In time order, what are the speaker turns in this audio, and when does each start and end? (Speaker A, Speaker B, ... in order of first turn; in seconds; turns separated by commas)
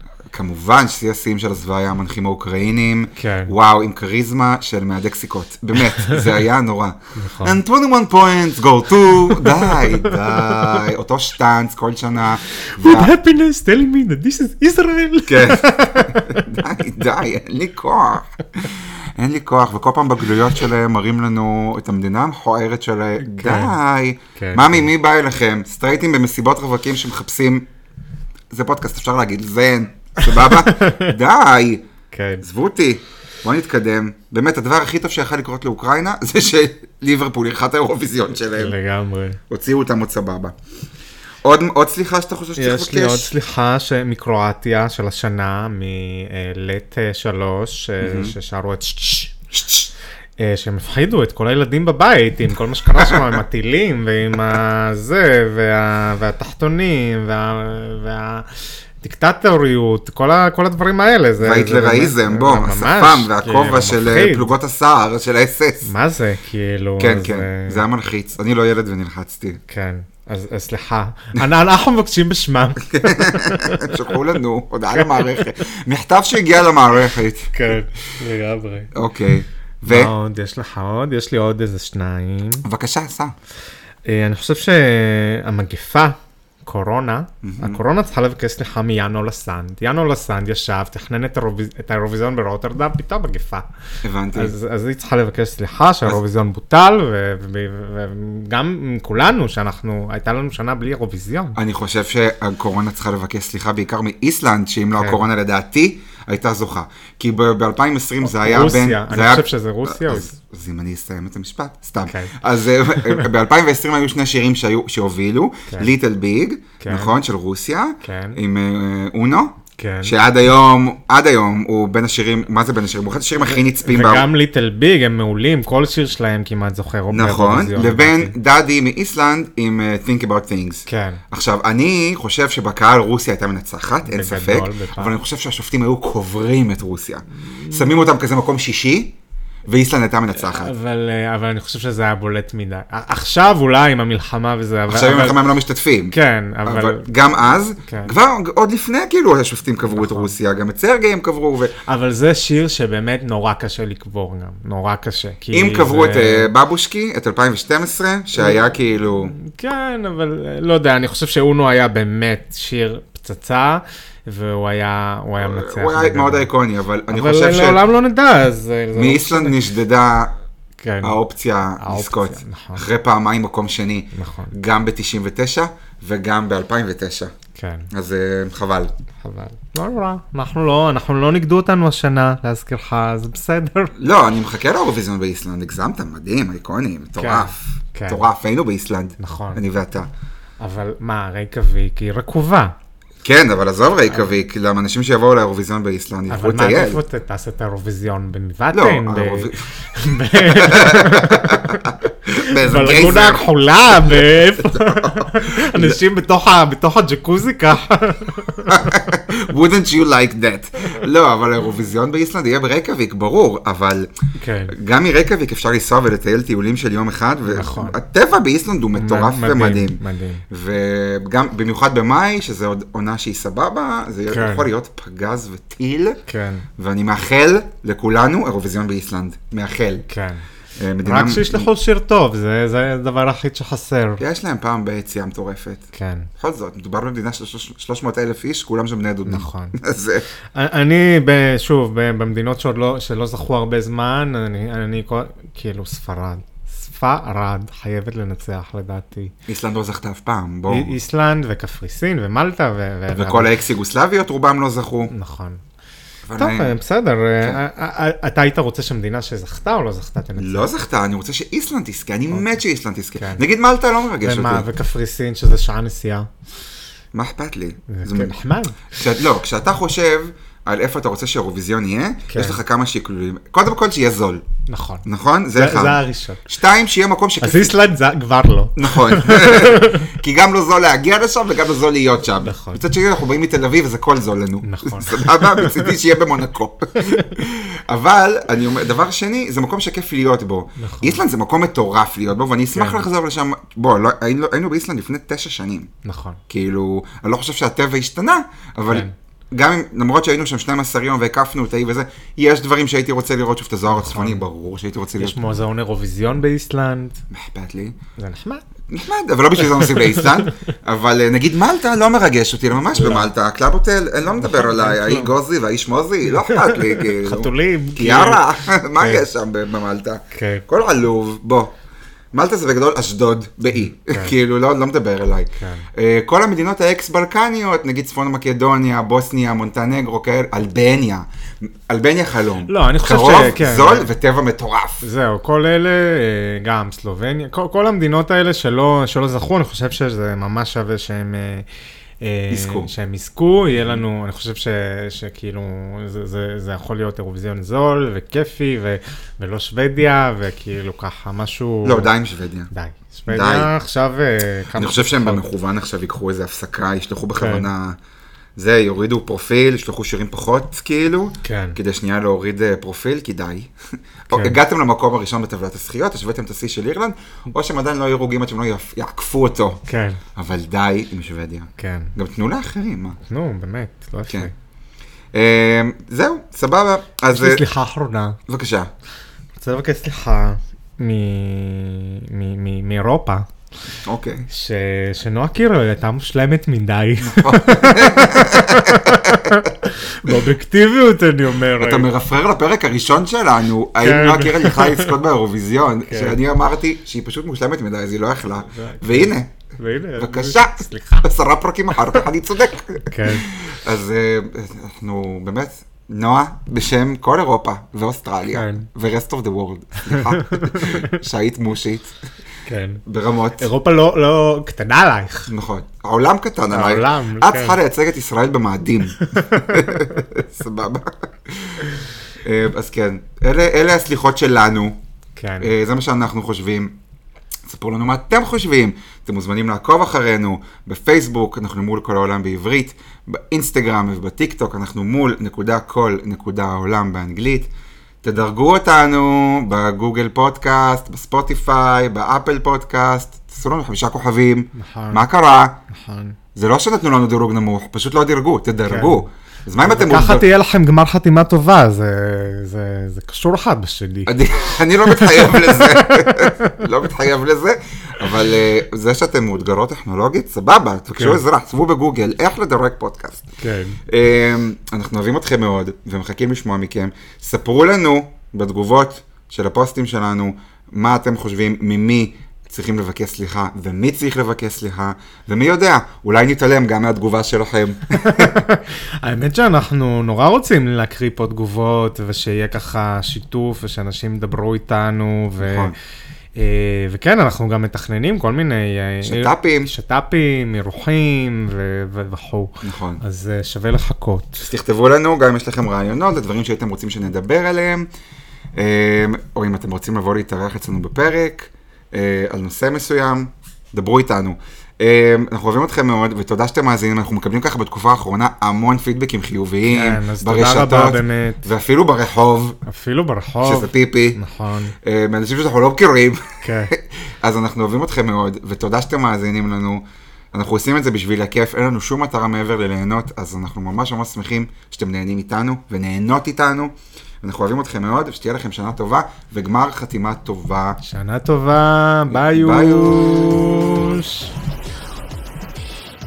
Speaker A: 0.3-13.1, Speaker B: 3.2-3.5, Speaker B: 6.0-6.3, Speaker B: 7.2-7.6, Speaker B: 9.3-10.8, Speaker B: 12.8-16.7, Speaker A: 15.3-27.7, Speaker B: 23.2-23.8, Speaker B: 24.4-24.9, Speaker A: 28.5-31.8, Speaker B: 30.2-31.1, Speaker B: 32.1-32.4, Speaker A: 32.4-38.8, Speaker B: 38.6-39.4, Speaker A: 39.5-40.5, Speaker A: 41.4-43.3, Speaker B: 42.6-49.3, Speaker A: 48.0-48.3, Speaker A: 49.5-49.9, Speaker B: 50.4-64.5, Speaker A: 53.0-53.3, Speaker A: 61.4-65.9, Speaker B: 65.8-67.8, Speaker A: 67.0-69.6, Speaker B: 69.7-74.1, Speaker A: 72.8-77.8, Speaker B: 74.9-75.4, Speaker B: 77.5-78.9, Speaker A: 78.9-80.1, Speaker B: 79.9-82.7, Speaker A: 82.6-83.3, Speaker B: 84.0-93.7, Speaker A: 87.4-87.8, Speaker A: 94.0-94.5, Speaker B: 94.3-101.6, Speaker A: 101.5-124.3, Speaker B: 105.0-105.3, Speaker B: 108.2-110.3, Speaker B: 112.1-112.3, Speaker B: 112.9-113.3, Speaker B: 116.8-117.2, Speaker B: 118.0-118.4, Speaker B: 119.8-120.1, Speaker B: 123.4-128.3, Speaker A: 127.1-139.2, Speaker B: 130.9-131.2, Speaker B: 134.1-135.2, Speaker B: 137.4-138.0, Speaker A: 139.7-140.7, Speaker B: 140.3-145.5, Speaker A: 144.9-151.8, Speaker B: 146.1-147.1, Speaker B: 147.8-148.1, Speaker B: 149.9-150.3, Speaker B: 151.8-156.5, Speaker A: 155.5-159.4, Speaker B: 159.4-166.5, Speaker A: 165.4-167.8, Speaker B: 167.1-169.7, Speaker A: 168.9-170.3, Speaker B: 170.8-171.2, Speaker A: 171.0-177.3, Speaker B: 171.8-172.9, Speaker B: 174.1-174.5, Speaker B: 177.6-177.9, Speaker A: 177.9-178.9, Speaker B: 179.2-183.9, Speaker A: 184.0-190.1, Speaker B: 187.2-188.2, Speaker B: 189.2-189.6, Speaker B: 190.6-192.8, Speaker A: 193.2-197.0, Speaker B: 196.3-208.9, Speaker A: 198.7-199.7, Speaker A: 200.3-203.5, Speaker A: 204.1-206.0, Speaker A: 208.7-214.1, Speaker B: 214.4-214.7, Speaker A: 214.7-226.2, Speaker B: 217.5-218.0, Speaker B: 219.0-220.4, Speaker B: 224.3-224.7, Speaker B: 226.3-226.7, Speaker A: 226.8-230.1, Speaker B: 230.1-230.4, Speaker A: 230.8-231.7, Speaker B: 231.0-234.2, Speaker A: 234.2-235.9, Speaker B: 235.9-236.3, Speaker A: 236.4-240.3, Speaker B: 239.2-239.8, Speaker B: 240.6-249.3, Speaker A: 249.5-250.9, Speaker B: 250.7-253.6, Speaker A: 253.1-255.1, Speaker B: 255.1-255.6, Speaker A: 256.3-256.7, Speaker B: 256.4-260.9, Speaker A: 260.4-264.7, Speaker B: 262.3-262.6, Speaker B: 263.2-263.4, Speaker B: 264.2-266.3, Speaker A: 267.1-268.4, Speaker B: 267.9-268.8, Speaker A: 268.9-274.4, Speaker B: 272.3-272.6, Speaker B: 274.7-276.5, Speaker A: 275.0-277.8, Speaker B: 277.4-280.1, Speaker A: 278.8-295.9, Speaker B: 282.4-282.8, Speaker B: 284.6-285.9, Speaker B: 287.0-287.2, Speaker B: 290.8-291.2, Speaker B: 292.8-293.1, Speaker B: 296.0-296.4, Speaker A: 296.5-305.4, Speaker B: 303.9-304.4, Speaker B: 305.2-307.2, Speaker A: 307.3-308.0, Speaker B: 308.2-308.6, Speaker A: 308.9-321.7, Speaker B: 309.7-310.5, Speaker B: 312.9-313.3, Speaker B: 314.4-315.4, Speaker B: 316.3-319.2, Speaker B: 320.3-320.6, Speaker A: 322.3-335.1, Speaker B: 323.9-324.4, Speaker B: 325.6-325.9, Speaker B: 332.7-334.1, Speaker B: 335.0-341.7, Speaker B: 342.2-352.1, Speaker A: 342.5-342.9, Speaker A: 351.8-352.7, Speaker B: 352.7-355.4, Speaker A: 353.3-353.7, Speaker A: 354.8-358.0, Speaker B: 357.3-357.7, Speaker A: 358.6-363.7, Speaker B: 361.4-361.8, Speaker A: 364.3-369.8, Speaker B: 364.3-364.6, Speaker B: 369.9-370.2, Speaker A: 370.4-373.2, Speaker B: 371.8-372.1, Speaker B: 373.3-374.5, Speaker A: 375.3-377.6, Speaker B: 377.3-378.4, Speaker A: 378.5-378.9, Speaker B: 379.6-383.5, Speaker A: 384.1-384.5, Speaker B: 384.5-392.1, Speaker A: 387.2-389.7, Speaker A: 391.8-399.5, Speaker B: 394.0-395.2, Speaker B: 396.1-396.4, Speaker B: 398.7-401.3, Speaker A: 400.2-412.1, Speaker B: 403.1-403.5, Speaker B: 408.5-408.9, Speaker B: 410.1-411.1, Speaker B: 412.7-413.0, Speaker A: 413.1-413.7, Speaker B: 413.6-415.5, Speaker A: 415.5-421.9, Speaker B: 416.7-417.8, Speaker B: 419.2-420.2, Speaker A: 422.4-425.0, Speaker B: 425.4-425.7, Speaker A: 425.6-427.0, Speaker A: 427.7-437.7, Speaker A: 438.2-445.8, Speaker B: 444.8-445.3, Speaker B: 445.9-446.4, Speaker A: 446.6-450.5, Speaker B: 448.9-449.2, Speaker B: 449.8-456.8, Speaker A: 454.3-463.5, Speaker B: 461.1-461.4, Speaker B: 463.6-464.0, Speaker A: 464.1-478.6, Speaker B: 478.1-485.9, Speaker A: 485.6-485.9, Speaker B: 486.6-494.7, Speaker A: 489.2-489.9, Speaker A: 492.8-493.2, Speaker A: 494.6-498.1, Speaker A: 498.8-512.8, Speaker B: 509.9-511.7, Speaker B: 512.9-514.9, Speaker A: 513.6-514.4, Speaker A: 515.0-531.0, Speaker B: 516.6-516.9, Speaker B: 531.0-534.5, Speaker A: 532.3-534.2